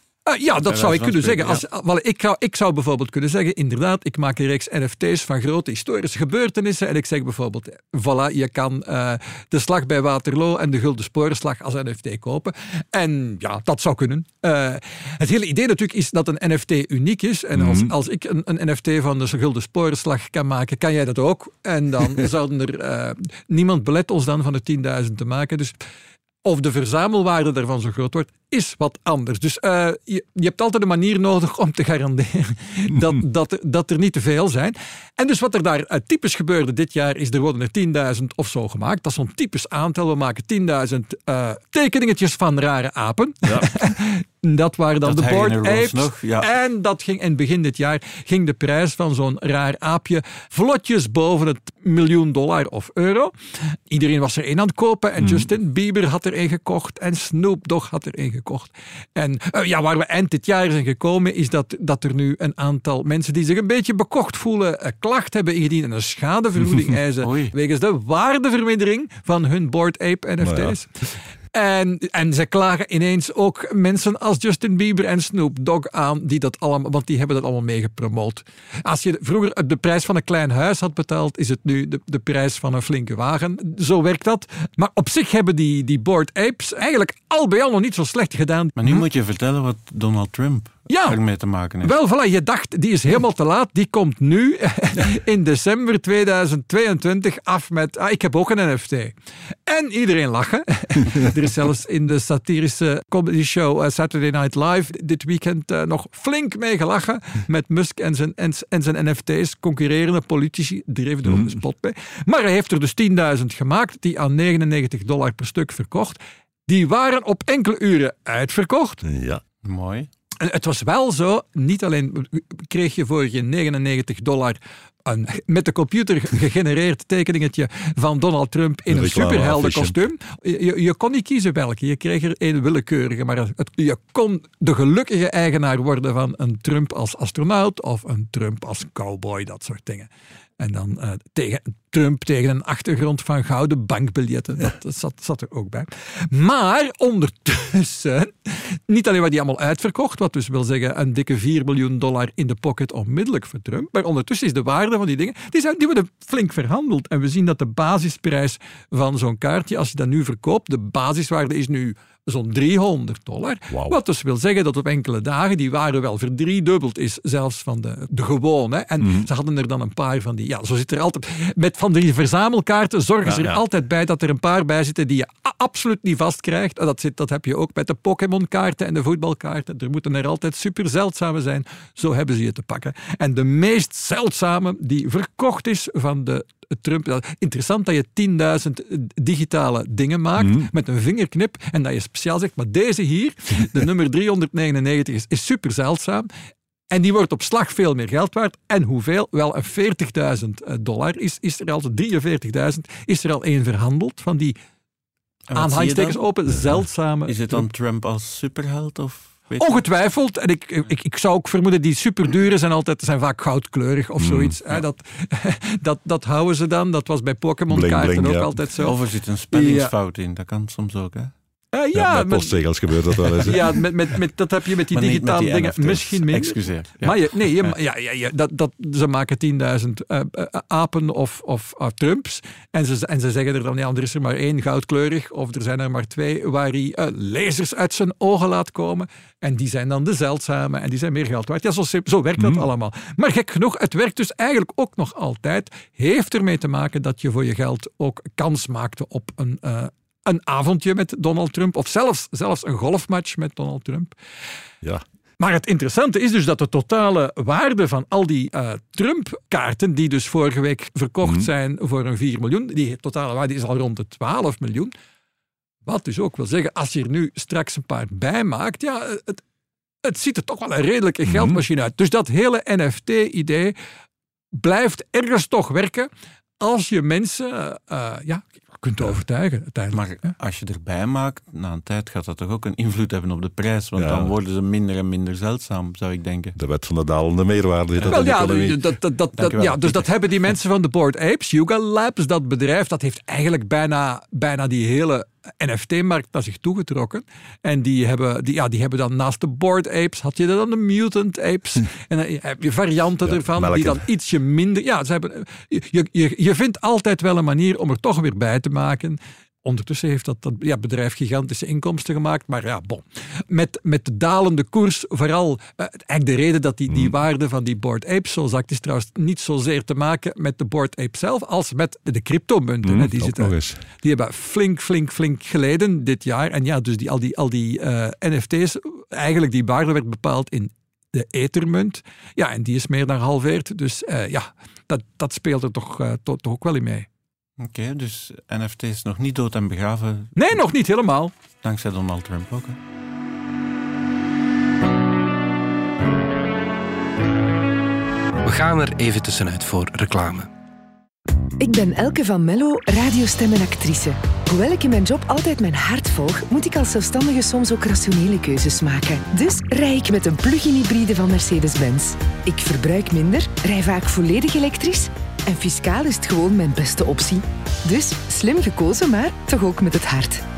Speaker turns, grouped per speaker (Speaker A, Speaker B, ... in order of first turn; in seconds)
Speaker A: 0.3-25.8, 26.4-70.9, 71.5-89.0, 90.9-91.2, 91.8-99.2, 99.7-119.0, 120.4-140.1, 140.6-196.3, 196.9-204.6, 205.6-207.7, 209.6-218.9, 219.5-219.9, 221.7-222.6, 223.4-254.2, 255.4-264.9, 265.9-269.4, 270.1-273.8, 274.6-276.1, 276.6-280.3, 288.1-337.1, 340.4-341.3
Speaker B: 0.7-1.6, 45.0-46.5, 67.2-67.5, 88.8-91.9, 119.6-120.1, 205.5-206.2, 207.3-209.9, 218.8-221.3, 224.9-227.7, 279.9-286.6, 289.4-290.1, 337.6-340.6, 341.6-342.8
Speaker C: 17.6-17.9, 43.4-43.7, 55.2-55.5, 70.4-70.8, 111.2-111.6, 119.0-119.4, 128.9-130.0, 163.7-164.0, 169.0-169.3, 173.2-173.6, 190.4-190.7, 206.5-206.8, 214.2-214.6, 217.7-218.6, 221.9-223.8, 242.4-242.7, 261.2-261.5, 271.3-271.6, 284.0-284.3, 286.6-288.8, 303.2-304.0, 316.9-317.1, 322.8-323.8
Speaker D: 348.4-350.5
Speaker E: 351.6-370.4